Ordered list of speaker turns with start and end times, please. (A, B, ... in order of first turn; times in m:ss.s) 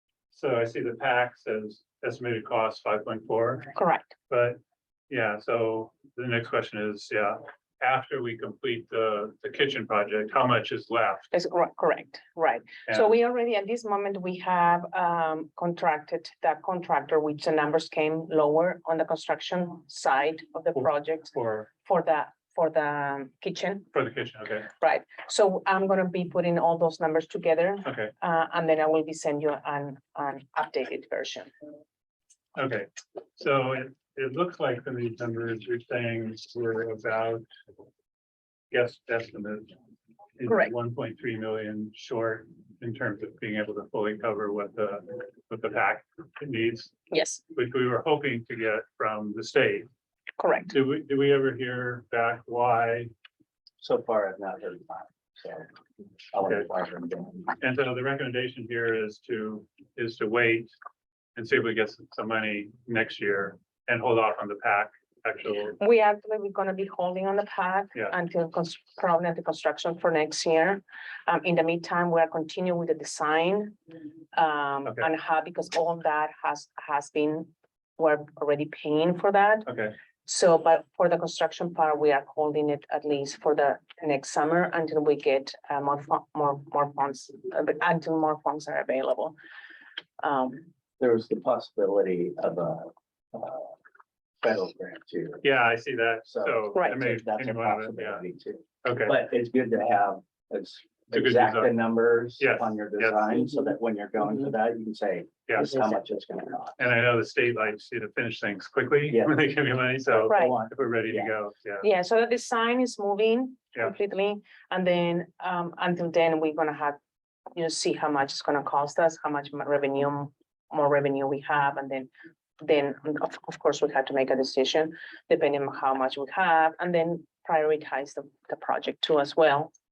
0:00.3-0:03.7 A
0:03.8-0:04.1 B
0:04.3-0:04.6 A
0:05.1-0:11.3 A
0:11.3-0:23.9 B
0:20.8-0:21.7 A
0:23.9-0:24.7 A
0:24.8-0:31.5 B
0:27.8-0:28.1 A
0:32.6-0:37.4 A
0:38.7-0:39.7 A
0:40.4-0:46.9 A
0:40.5-0:40.7 B
0:47.1-0:47.4 B
0:47.6-0:49.9 A
0:50.4-0:50.7 B
0:50.7-0:53.1 A
0:53.8-0:55.7 C
0:56.3-0:57.6 C
0:57.6-1:00.7 A
1:01.4-1:05.8 A
1:05.8-1:13.8 B
1:14.3-1:19.7 B
1:19.7-1:19.9 A
1:20.2-1:29.4 B
1:30.2-1:30.7 B
1:31.0-1:33.8 C
1:34.4-1:35.5 C
1:35.4-1:38.2 A
1:36.3-1:46.8 C
1:38.8-1:39.2 A
1:41.1-1:41.7 A
1:42.4-1:43.4 A
1:45.5-1:45.8 A
1:46.8-1:51.8 A
1:50.1-1:51.3 C
1:50.3-1:50.6 B
1:51.8-1:57.0 B
1:57.5-2:02.1 B
2:02.6-2:09.7 B